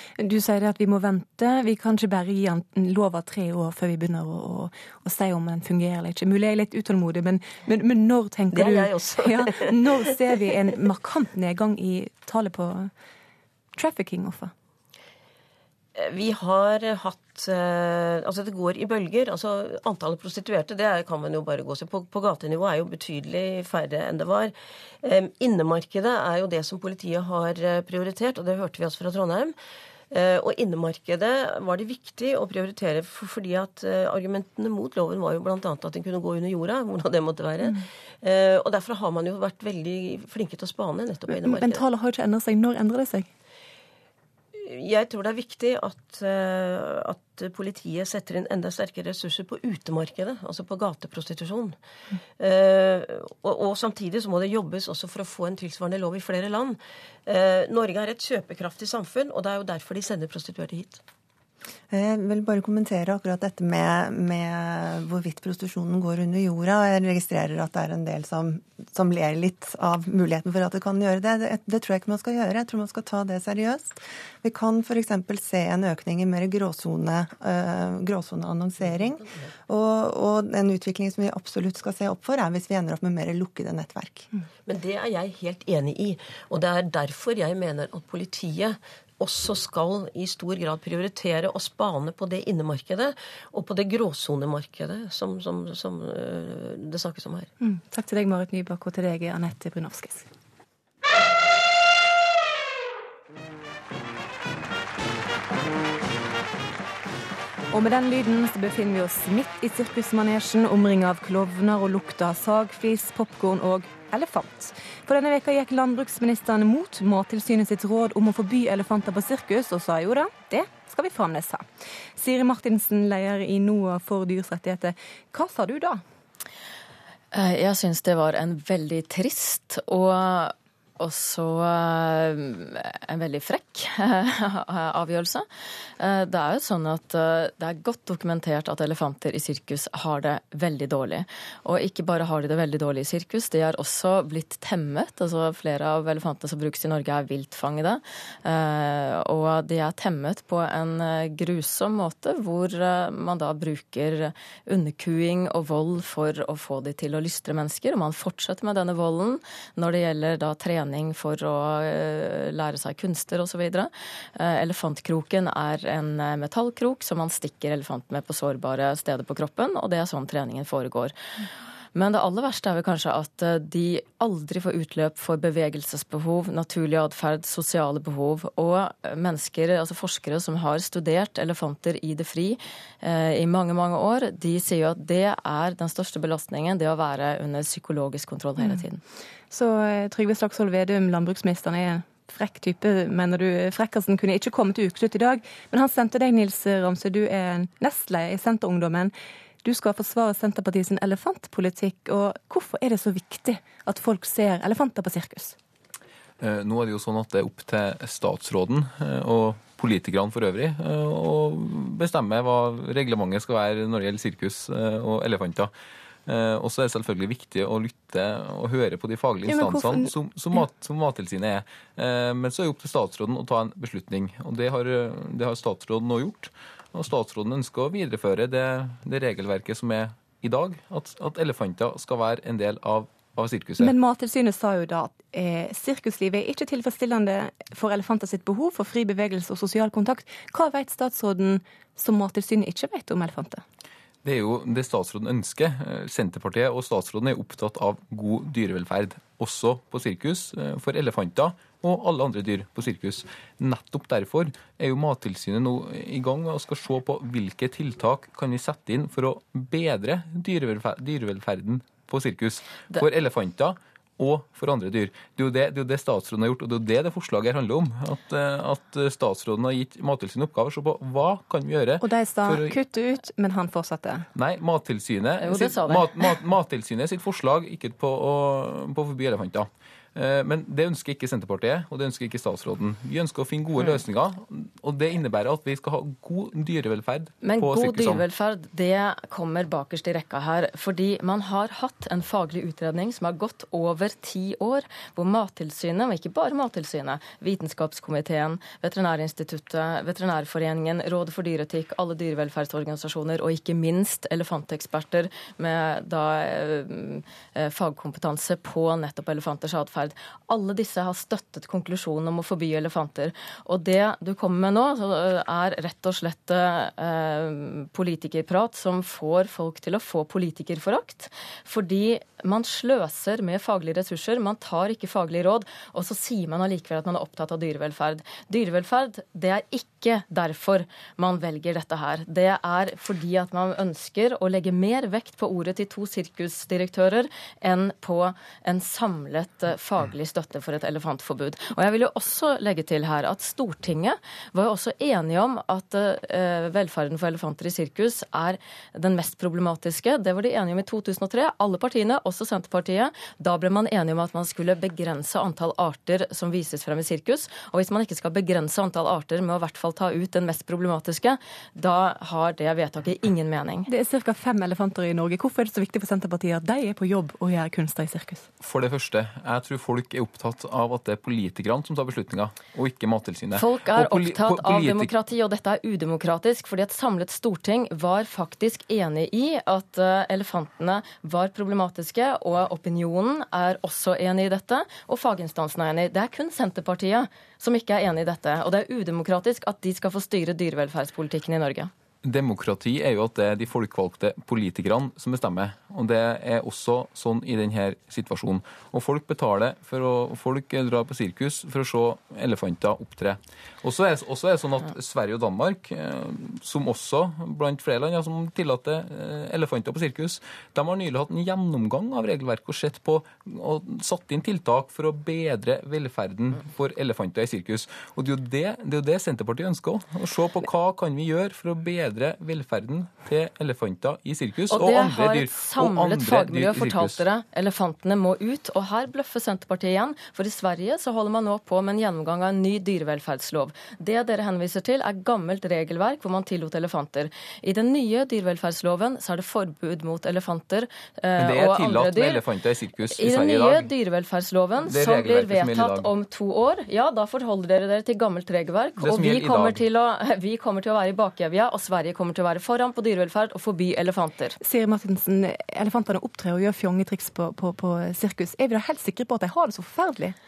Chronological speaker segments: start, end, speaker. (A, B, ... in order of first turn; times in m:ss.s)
0:00.2-0:12.9 A
0:08.5-0:09.7 B
0:13.8-0:14.5 A
0:16.0-0:29.5 B
0:30.1-0:41.8 B
0:41.3-0:43.3 A
0:44.6-0:51.8 B
0:52.4-1:01.0 B
1:01.9-1:24.3 C
1:24.7-1:37.5 B
1:37.6-1:40.3 A
1:47.7-2:01.6 A
2:02.2-2:06.0 A
2:07.3-2:15.5 D
2:16.0-2:51.1 D
2:52.0-3:09.0 D
3:09.5-3:19.1 A
3:19.6-3:25.6 A
3:26.4-3:35.7 E
3:36.3-3:53.9 E
3:39.5-3:40.1 A
3:53.8-4:03.6 A
4:04.2-4:32.8 E
4:32.0-4:34.3 A
4:34.4-4:48.2 E
4:35.4-4:36.2 D
4:47.4-6:03.9 D
6:03.9-6:08.5 A
6:08.6-6:15.1 E
6:13.6-6:31.9 D
6:32.2-7:07.2 E
7:04.7-7:22.4 D
7:21.4-7:23.9 E
7:23.1-7:34.6 D
7:24.8-7:26.1 E
7:29.0-7:29.8 E
7:34.6-7:40.4 A